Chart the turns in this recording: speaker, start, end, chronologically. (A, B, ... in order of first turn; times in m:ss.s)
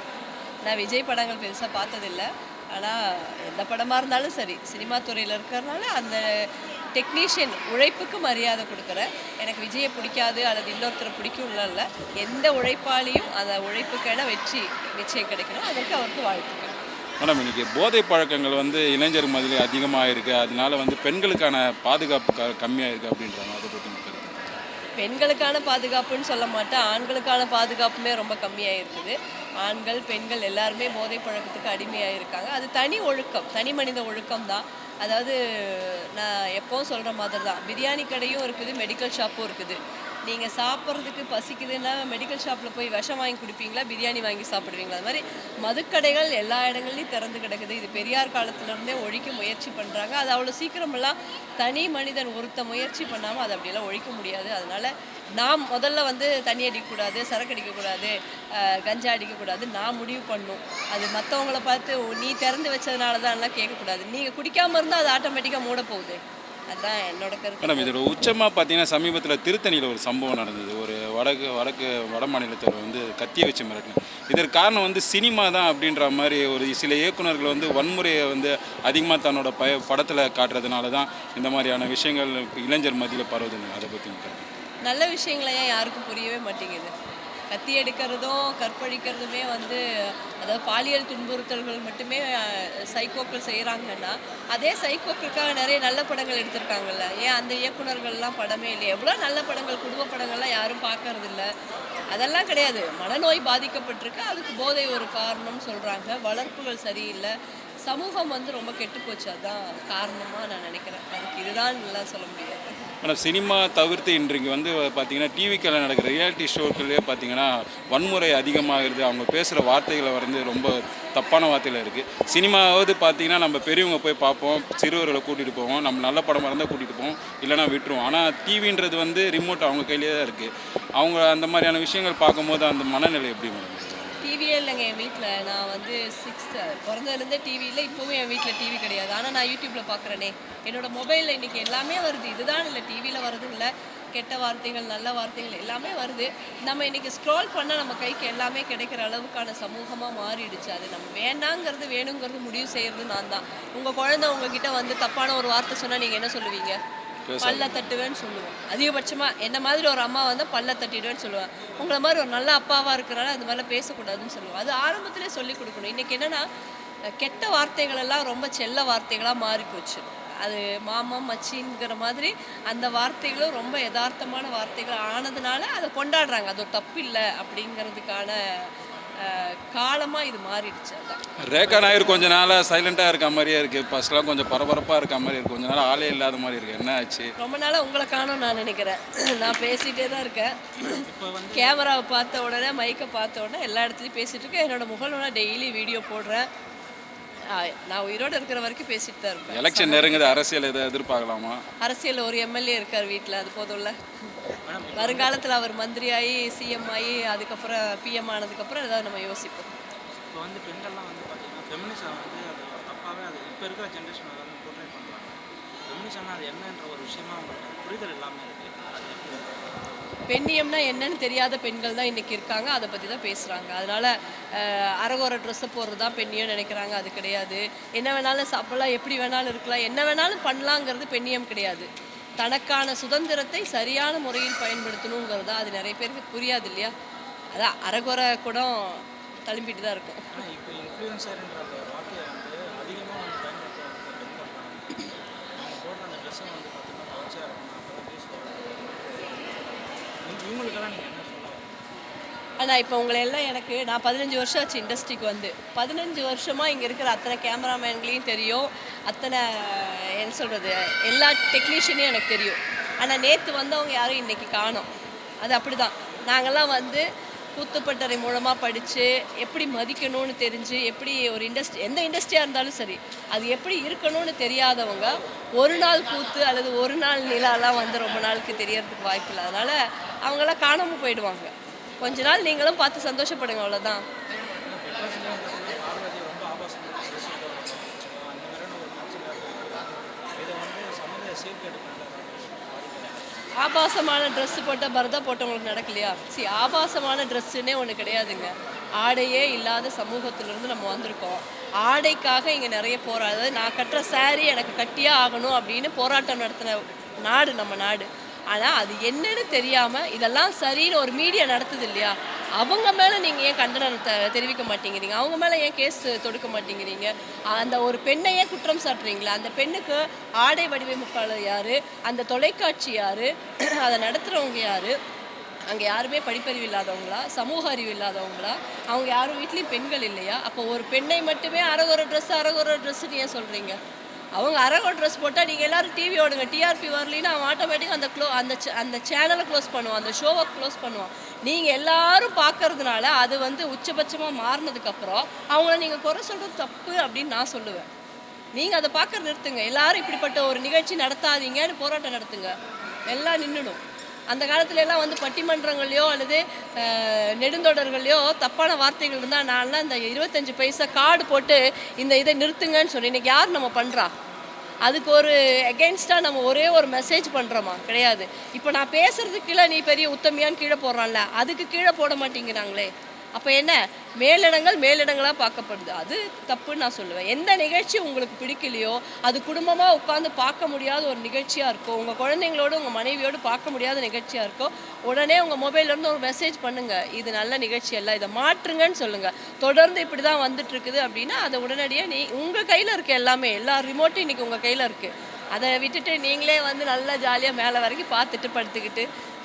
0:00.6-0:06.2 A
0:07.0-0:16.8 A
0:17.2-0:24.3 B
0:25.0-1:07.9 A
1:07.6-1:24.6 B
1:24.8-1:26.9 A
1:27.5-1:29.8 A
1:30.4-1:41.5 A
1:42.1-1:47.3 A
1:47.8-1:52.7 A
1:53.0-2:14.3 B
2:14.2-2:36.8 A
2:37.2-2:38.0 B
2:37.4-2:46.4 A
2:47.2-3:02.2 A
3:01.4-3:07.3 B
3:07.4-3:16.5 A
3:10.8-3:12.0 C
3:17.5-3:20.4 A
3:19.5-3:21.6 B
3:21.8-3:24.0 A
3:24.6-3:25.4 C
3:25.0-3:29.7 A
3:30.3-3:39.9 C
3:40.3-3:56.9 A
3:57.5-4:00.2 A
4:00.3-4:11.7 C
4:12.6-4:24.9 A
4:25.4-4:27.0 A
4:27.6-4:44.0 A
4:44.6-4:53.5 C
4:53.6-5:25.0 A
5:25.7-5:33.8 A
5:34.4-5:47.9 A
5:48.6-5:52.5 A
5:53.1-5:53.8 A
5:54.3-6:04.1 A
6:04.9-6:39.1 A